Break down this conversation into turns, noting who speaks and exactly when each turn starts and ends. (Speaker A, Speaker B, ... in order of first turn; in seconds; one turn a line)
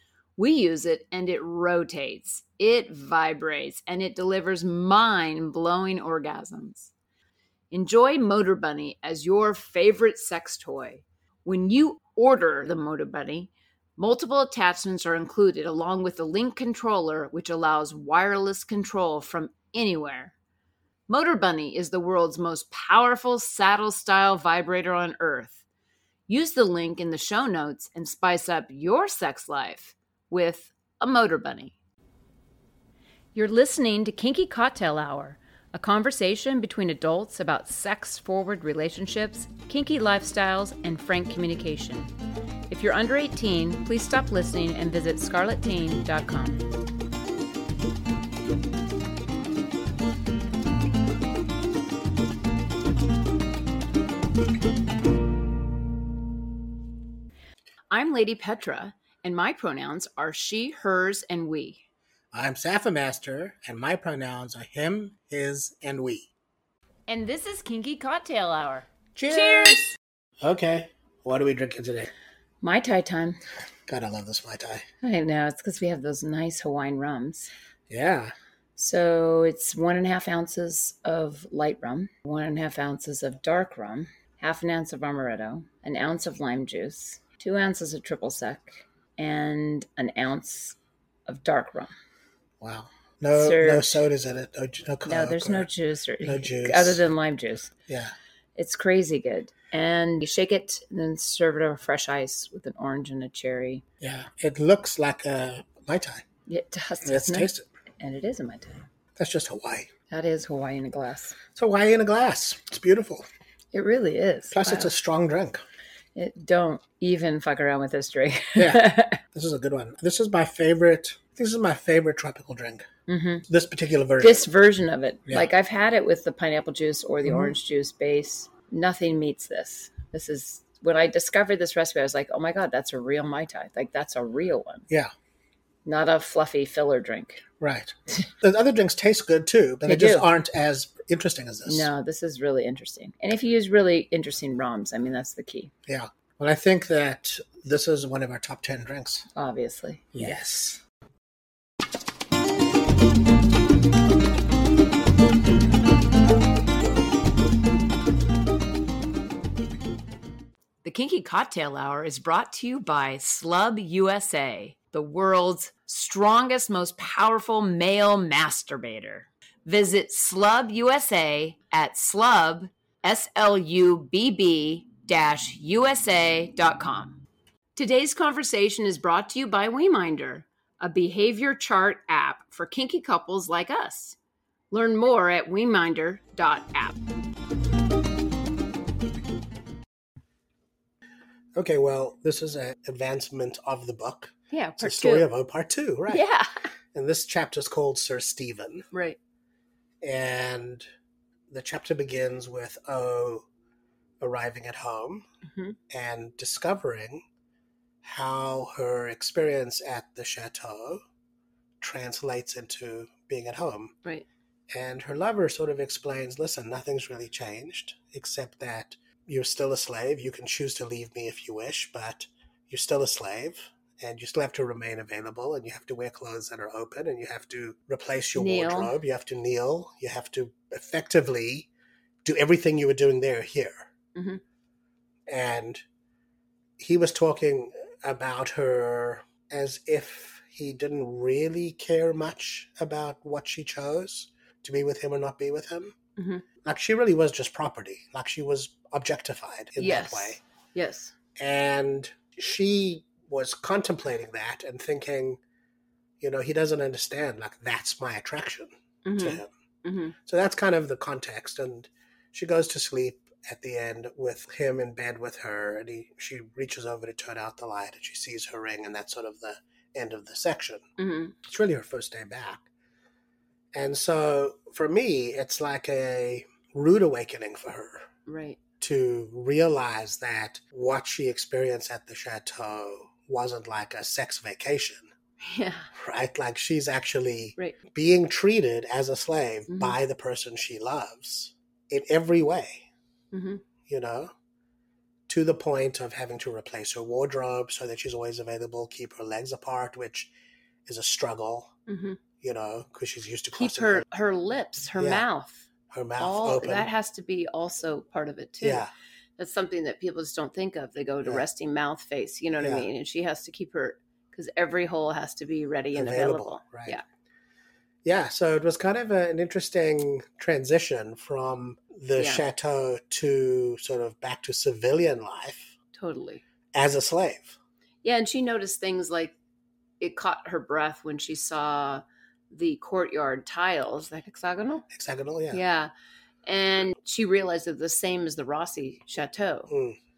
Speaker A: 0.4-6.9
Speaker A: 7.7-20.3
Speaker A: 21.1-25.6
Speaker A: 26.3-31.8
Speaker A: 33.4-42.1
Speaker A: 42.7-46.6
Speaker A: 57.9-61.8
Speaker B: 62.3-66.3
Speaker A: 67.1-70.0
Speaker B: 69.2-69.8
Speaker B: 70.4-72.1
Speaker A: 72.6-73.4
Speaker B: 73.9-74.8
Speaker A: 75.0-77.5
Speaker B: 77.9-78.3
Speaker A: 78.8-91.9
Speaker B: 92.6-95.7
Speaker A: 93.3-94.0
Speaker A: 95.0-97.7
Speaker B: 96.2-97.0
Speaker B: 97.9-98.1
Speaker A: 98.6-103.8
Speaker B: 104.0-106.2
Speaker A: 106.5-108.8
Speaker B: 107.0-107.7
Speaker B: 109.2-109.9
Speaker A: 110.1-111.4
Speaker B: 111.5-113.3
Speaker A: 113.7-114.9
Speaker B: 114.5-115.6
Speaker A: 116.2-119.2
Speaker B: 118.6-122.8
Speaker A: 123.1-123.5
Speaker B: 123.5-124.5
Speaker A: 124.2-134.9
Speaker B: 127.2-127.6
Speaker A: 135.8-137.4
Speaker B: 137.6-141.9
Speaker A: 139.8-140.3
Speaker A: 141.7-145.7
Speaker B: 145.9-149.3
Speaker A: 149.3-150.4
Speaker B: 150.1-150.8
Speaker A: 160.8-177.2
Speaker A: 177.8-184.2
Speaker A: 184.7-187.0
Speaker B: 191.6-196.2
Speaker A: 194.5-195.3
Speaker A: 196.1-196.5
Speaker B: 196.9-198.9
Speaker A: 198.9-199.2
Speaker B: 200.0-200.8
Speaker B: 201.5-203.4
Speaker B: 204.2-205.2
Speaker A: 205.5-205.8
Speaker B: 205.9-207.2
Speaker B: 208.0-211.0
Speaker B: 211.8-213.9
Speaker B: 214.7-231.7
Speaker A: 228.3-228.9
Speaker B: 232.2-233.9
Speaker A: 234.2-234.4
Speaker B: 235.3-235.8
Speaker B: 236.8-245.9
Speaker A: 246.2-246.4
Speaker B: 246.6-250.4
Speaker A: 249.8-251.2
Speaker B: 251.4-255.4
Speaker B: 256.2-259.5
Speaker A: 259.1-260.1
Speaker B: 260.3-270.8
Speaker A: 271.0-271.4
Speaker B: 271.4-272.7
Speaker B: 273.7-278.0
Speaker A: 278.3-278.6
Speaker B: 278.8-285.1
Speaker A: 285.4-285.9
Speaker B: 285.9-292.9
Speaker A: 289.7-290.0
Speaker A: 293.3-293.6
Speaker B: 293.9-294.3
Speaker B: 295.3-300.3
Speaker B: 300.9-301.7
Speaker A: 301.9-302.2
Speaker B: 302.4-304.1
Speaker A: 303.6-305.6
Speaker B: 305.0-305.3
Speaker B: 305.9-306.9
Speaker A: 306.2-308.9
Speaker B: 308.6-308.9
Speaker A: 309.4-317.0
Speaker B: 312.6-312.9
Speaker B: 315.9-317.0
Speaker B: 318.1-325.7
Speaker A: 322.2-322.5
Speaker A: 325.9-326.4
Speaker B: 326.7-327.6
Speaker A: 328.0-329.4
Speaker A: 330.0-334.9
Speaker B: 334.9-335.6
Speaker A: 335.5-335.9
Speaker A: 336.5-339.7
Speaker B: 339.7-340.0